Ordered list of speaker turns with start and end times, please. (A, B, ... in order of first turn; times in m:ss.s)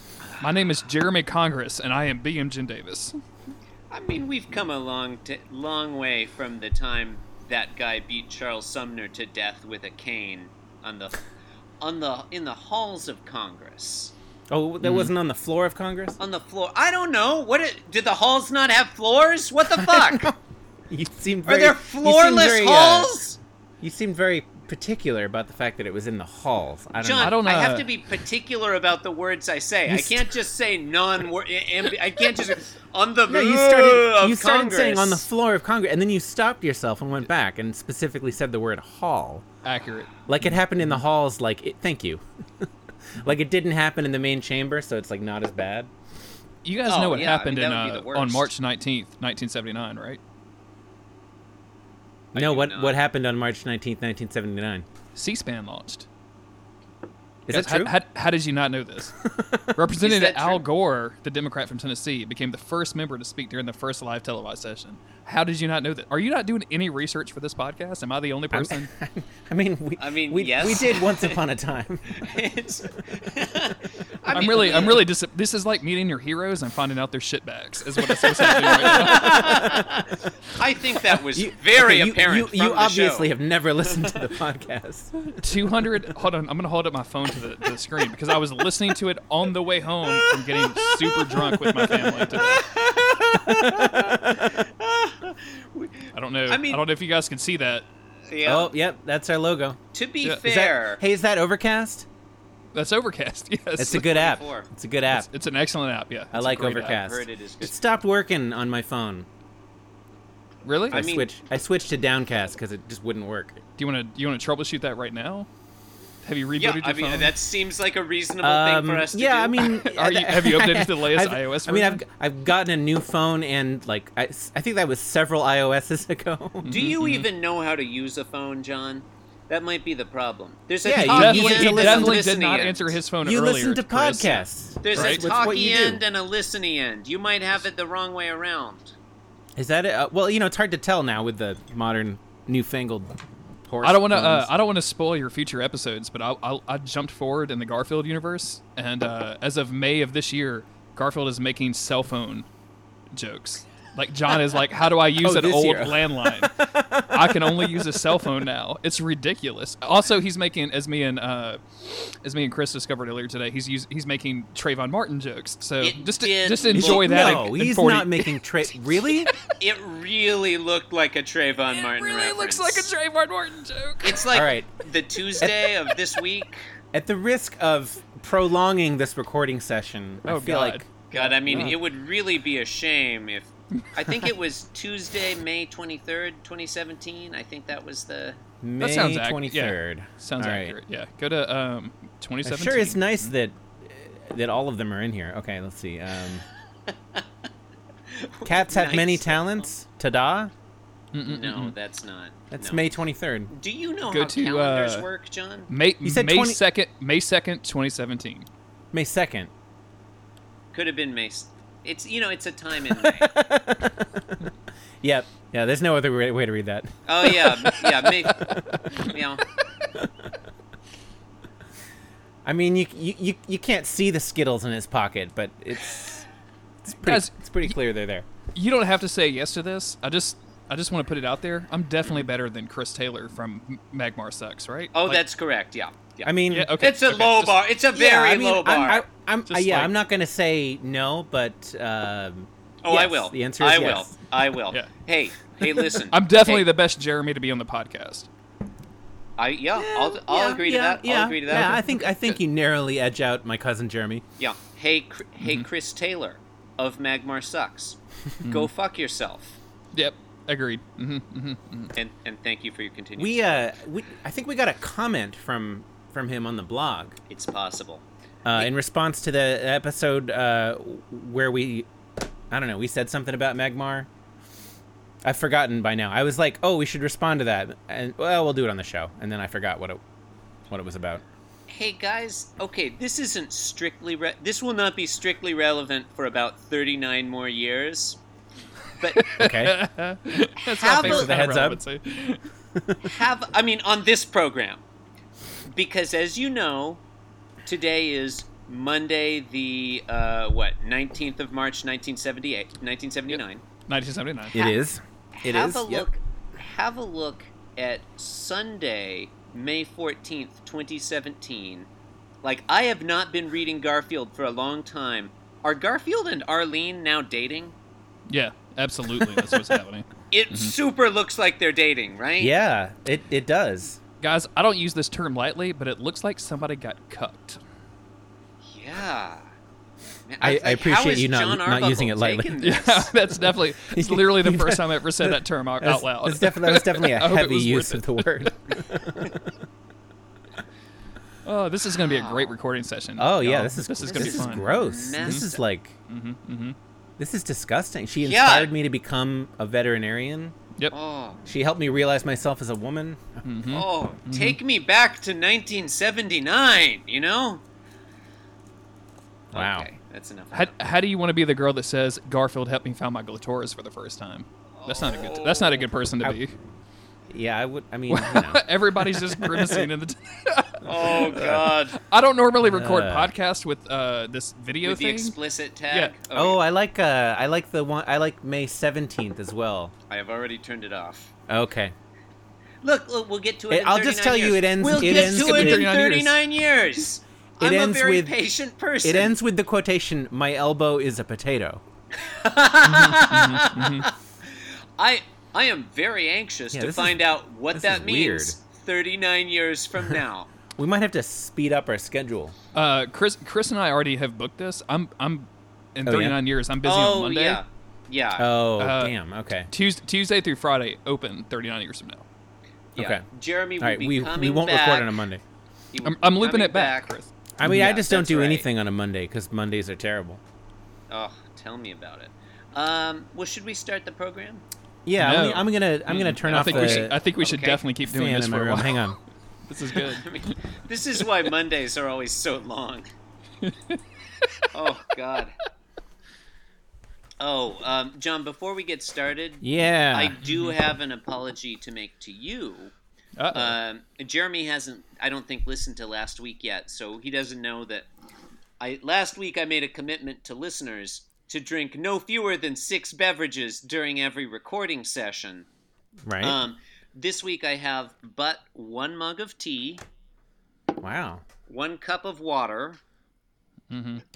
0:00.4-0:03.2 A
0:03.9-0:11.2 B
0:11.8-0:14.1 B
0:14.5-0:16.2 C
0:14.8-0:15.1 A
0:16.2-0:20.3 B
0:19.7-0:20.4 C
0:20.9-0:23.2 C
0:21.4-0:23.4 B
0:23.8-0:27.4 C
0:27.0-0:35.2 B
0:27.2-0:27.9 A
0:29.9-0:30.3 C
0:33.3-0:39.4 C
0:39.6-0:40.3 A
0:40.3-0:42.6 C
0:43.2-0:45.9 C
0:46.6-0:50.2 A
0:46.8-0:48.5 B
0:52.3-0:53.0 B
0:52.3-0:54.8 C
0:55.1-0:56.0 A
0:57.4-0:57.9 C
0:57.5-0:59.2 A
0:59.2-0:59.8 C
0:59.7-1:08.9 A
1:00.0-1:00.6 B
1:08.5-1:12.2 C
1:10.0-1:11.4 B
1:12.1-1:15.1 B
1:14.3-1:19.8 A
1:18.2-1:23.3 B
1:21.3-1:25.3 C
1:25.4-1:32.6 A
1:30.3-1:36.8 B
1:33.4-1:34.5 C
1:36.1-1:37.9 A
1:38.3-1:38.7 B
1:38.4-1:39.8 C
1:39.9-1:41.0 B
1:40.4-1:42.0 C
1:42.7-1:44.1 A
1:43.8-1:45.3 C
1:43.8-1:44.7 B
1:45.1-1:47.0 A
1:46.3-1:49.3 C
1:46.9-1:47.7 B
1:50.6-1:51.0 A
1:50.9-1:53.6 C
1:50.9-1:51.3 B
1:53.8-1:55.5 A
1:56.2-1:57.3 A
1:56.6-1:59.6 B
1:58.4-2:06.7 C
1:59.6-2:02.0 A
2:06.6-2:07.3 A
2:06.6-2:13.0 B
2:10.8-2:12.3 C
2:11.0-2:15.2 A
2:13.2-2:16.0 C
2:14.8-2:18.9 B
2:19.6-2:23.1 C
2:23.6-2:24.5 C
2:23.8-2:32.4 A
2:33.1-2:48.4 A
2:35.2-2:38.2 C
2:45.8-2:47.4 B
2:46.7-2:49.3 C
2:49.6-2:52.9 B
2:51.7-2:54.3 A
2:54.0-2:56.6 B
2:54.3-2:54.7 C
2:56.9-3:00.9 C
3:00.2-3:01.8 A
3:01.1-3:08.4 B
3:01.5-3:01.7 C
3:08.6-3:10.8 C
3:08.8-3:13.3 A
3:12.4-3:16.4 C
3:18.1-3:19.7 B
3:18.4-3:20.5 C
3:21.1-3:21.7 A
3:21.2-3:22.8 B
3:22.5-3:23.5 C
3:23.5-3:25.7 B
3:24.1-3:25.1 A
3:25.7-3:28.5 A
3:26.0-3:26.6 C
3:28.9-3:29.5 C
3:30.7-3:33.3 B
3:32.9-3:34.3 C
3:35.0-3:37.8 C
3:37.0-3:39.4 B
3:38.4-3:39.0 A
3:42.4-3:46.2 C
3:46.8-3:48.2 C
3:47.0-3:47.7 A
3:48.5-3:55.2 A
3:54.9-3:59.0 B
3:56.2-3:56.8 C
3:56.5-3:57.6 A
3:57.9-4:04.1 C
3:59.5-3:59.9 A
4:02.8-4:06.7 B
4:06.1-4:08.3 A
4:09.4-4:11.8 B
4:09.8-4:14.2 C
4:11.5-4:11.9 A
4:14.4-4:19.6 B
4:18.4-4:18.7 A
4:19.9-4:21.9 A
4:21.9-4:23.6 B
4:23.2-4:27.2 C
4:27.3-4:28.7 B
4:28.4-4:31.9 C
4:32.5-4:34.1 C
4:35.2-4:40.0 C
4:40.7-4:41.2 C
4:41.7-4:48.2 B
4:49.0-4:49.3 B
4:49.2-4:52.4 A
4:49.3-4:49.8 C
4:50.6-4:51.4 B
4:51.0-4:51.8 C
4:53.0-4:54.8 B
4:55.7-4:57.0 B
4:57.6-5:03.6 B
5:03.9-5:04.6 A
5:04.5-5:06.1 C
5:05.4-5:11.9 B
5:12.4-5:17.7 B
5:18.3-5:20.7 A
5:20.3-5:22.5 B
5:22.4-5:24.0 C
5:24.2-5:27.6 A
5:28.6-5:29.5 B
5:30.3-5:33.1 B
5:30.4-5:32.6 C
5:32.6-5:38.5 A
5:33.9-5:39.5 C
5:41.4-5:44.7 A
5:42.0-5:42.5 B
5:43.2-5:46.0 C
5:44.1-5:45.6 B
5:45.2-5:45.5 A
5:46.1-5:46.8 A
5:47.2-5:50.5 C
5:48.2-5:48.7 B
5:50.9-5:51.4 B
5:51.4-5:53.4 C
5:53.4-5:54.6 A
5:53.7-5:57.6 B
5:59.5-5:59.9 C
5:59.5-6:00.8 B
6:00.5-6:06.5 A
6:04.8-6:05.8 B
6:07.3-6:09.9 C
6:08.1-6:15.4 A
6:10.8-6:12.0 B
6:12.6-6:13.3 C
6:14.8-6:16.6 B
6:16.3-6:19.9 C
6:20.1-6:21.3 B
6:21.5-6:21.9 C
6:22.8-6:29.4 B
6:23.7-6:25.9 C
6:24.9-6:26.4 A
6:27.6-6:28.3 C
6:29.0-6:31.8 C
6:32.2-6:40.5 B
6:32.8-6:34.1 A
6:36.7-6:38.6 C
6:40.8-6:42.5 C
6:42.7-6:47.6 A
6:46.0-6:46.4 C
6:46.8-6:48.5 B
6:48.4-6:49.7 C
6:48.8-6:49.1 A
6:49.7-6:52.2 A
6:53.0-6:53.2 C
6:53.0-6:55.2 B
6:53.8-6:55.4 C
6:55.9-6:58.6 B
6:56.0-6:57.9 A
6:57.6-7:00.4 C
7:01.1-7:04.6 B
7:05.0-7:07.1 C
7:05.2-7:09.2 A
7:06.4-7:07.8 B
7:08.0-7:09.2 C
7:09.7-7:10.3 A
7:10.0-7:13.1 B
7:13.6-7:14.0 A
7:14.7-7:15.5 B
7:17.4-7:22.9 B
7:19.6-7:20.4 C
7:20.4-7:20.8 A
7:23.4-7:23.8 A
7:23.5-7:28.1 B
7:28.8-7:35.7 B
7:36.2-7:36.6 C
7:36.4-7:40.0 B
7:41.0-7:41.4 C
7:41.7-7:43.0 B
7:43.9-7:44.2 A